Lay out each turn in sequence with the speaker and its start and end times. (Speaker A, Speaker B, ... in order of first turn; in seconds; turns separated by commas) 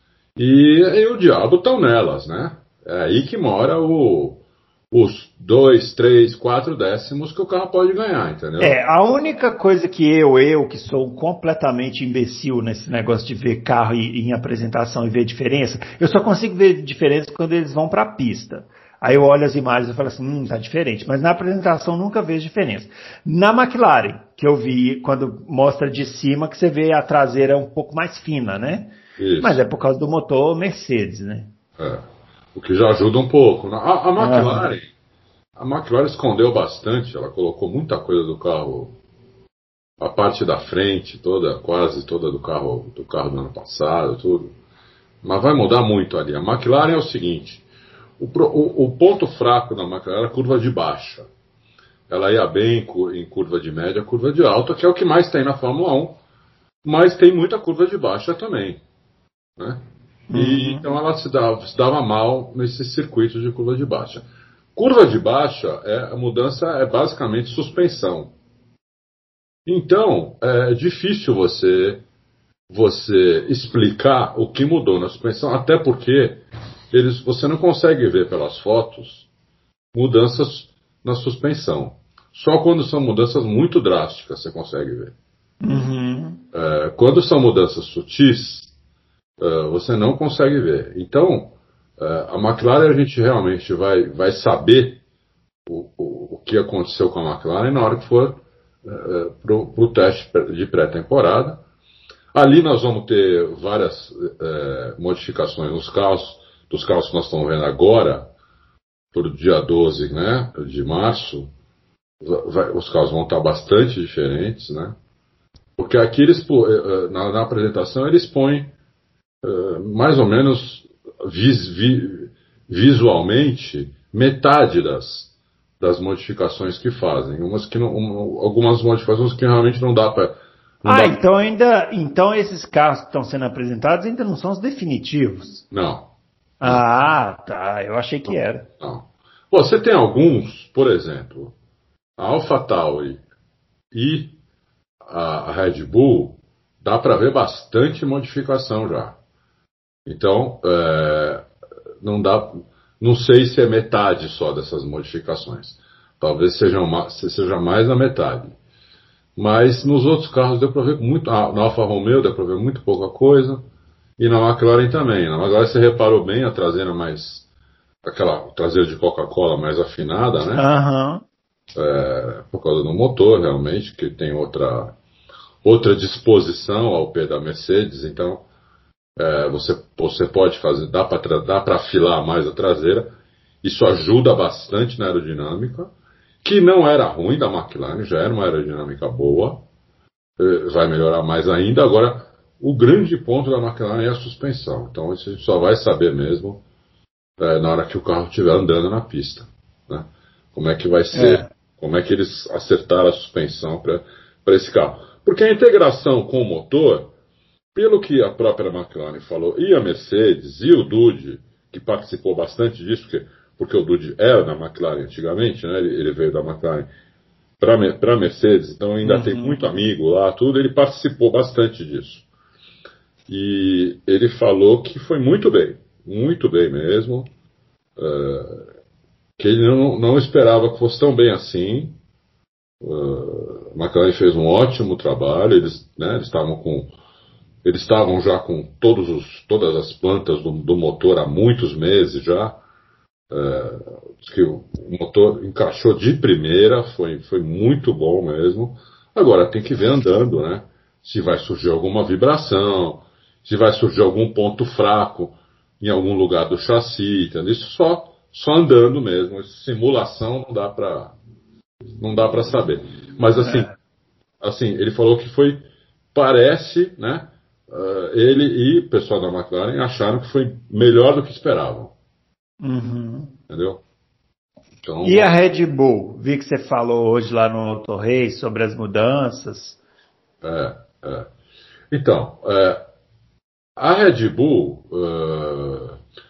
Speaker A: 0.3-8.8, Speaker B: 8.6-31.5, Speaker A: 29.2-29.6, Speaker A: 31.8-34.9, Speaker B: 34.2-34.7, Speaker A: 35.5-38.9, Speaker A: 40.0-44.5, Speaker A: 45.2-47.6, Speaker A: 48.2-51.3, Speaker A: 52.1-56.2, Speaker A: 56.8-58.8, Speaker A: 59.6-68.3, Speaker B: 60.3-60.9, Speaker A: 69.7-72.0, Speaker A: 72.7-79.2, Speaker A: 79.9-85.1, Speaker B: 85.6-86.4, Speaker A: 86.5-88.7, Speaker A: 89.4-95.0, Speaker A: 95.7-101.6, Speaker A: 102.3-108.3, Speaker A: 109.1-111.5, Speaker A: 112.2-115.0, Speaker A: 115.8-118.7, Speaker A: 119.4-131.2, Speaker B: 130.8-135.6, Speaker A: 135.7-136.1, Speaker B: 136.6-138.7, Speaker A: 138.8-141.5, Speaker A: 142.2-143.2, Speaker A: 143.9-144.4, Speaker A: 145.0-149.2, Speaker A: 150.1-151.5, Speaker A: 152.0-158.5, Speaker A: 159.3-163.6, Speaker A: 164.2-167.5, Speaker A: 168.0-170.7, Speaker B: 170.5-171.2, Speaker A: 171.7-174.9, Speaker A: 175.6-178.4, Speaker A: 179.2-185.9, Speaker A: 186.4-189.6, Speaker A: 190.4-196.6, Speaker A: 197.4-207.1, Speaker B: 201.1-201.5, Speaker A: 207.7-216.9, Speaker A: 217.6-222.2, Speaker B: 219.0-219.6, Speaker A: 223.3-227.3, Speaker A: 228.0-228.7, Speaker A: 229.4-232.0, Speaker A: 232.8-236.9, Speaker A: 237.6-242.6, Speaker A: 243.3-261.1, Speaker A: 261.9-263.7, Speaker B: 263.4-263.7, Speaker A: 264.4-271.9, Speaker B: 272.6-273.3, Speaker A: 273.5-273.8, Speaker A: 274.8-275.3, Speaker B: 275.0-279.8, Speaker A: 280.4-281.3, Speaker A: 281.9-282.8, Speaker A: 283.8-286.0